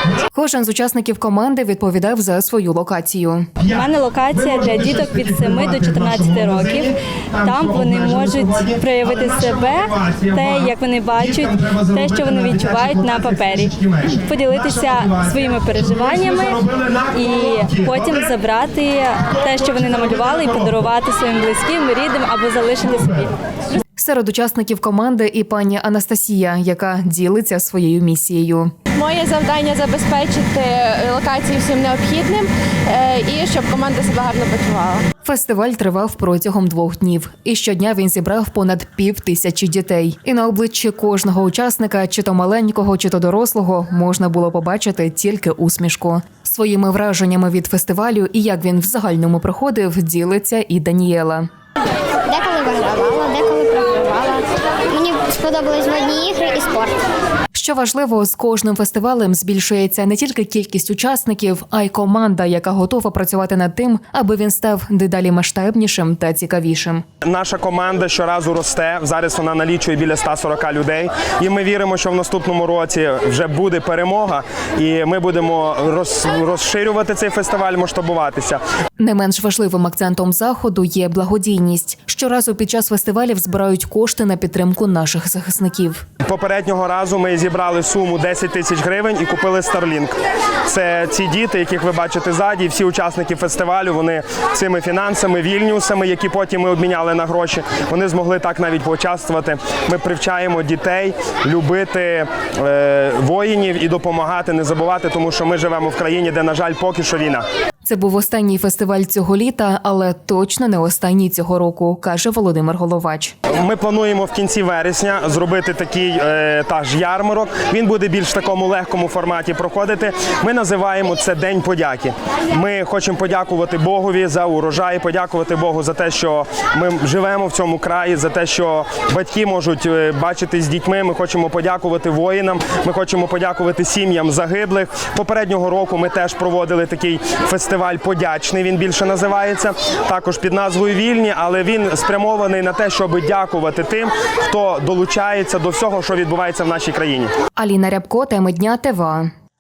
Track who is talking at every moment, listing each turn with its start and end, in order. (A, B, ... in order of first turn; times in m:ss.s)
0:00.3-0:03.5 A
0:03.6-0:18.3 B
0:03.7-0:23.3 C
0:19.4-0:20.8 B
0:24.0-0:28.7 A
0:29.0-0:35.0 D
0:35.2-0:51.5 A
0:52.3-0:54.4 E
0:54.9-0:56.9 E
0:57.5-1:07.0 A
1:07.2-1:18.6 B
1:19.0-1:26.0 A
1:26.2-1:30.2 B
1:30.7-1:47.4 B
1:47.8-1:53.4 A
1:53.6-2:27.3 B
2:27.6-2:29.3 A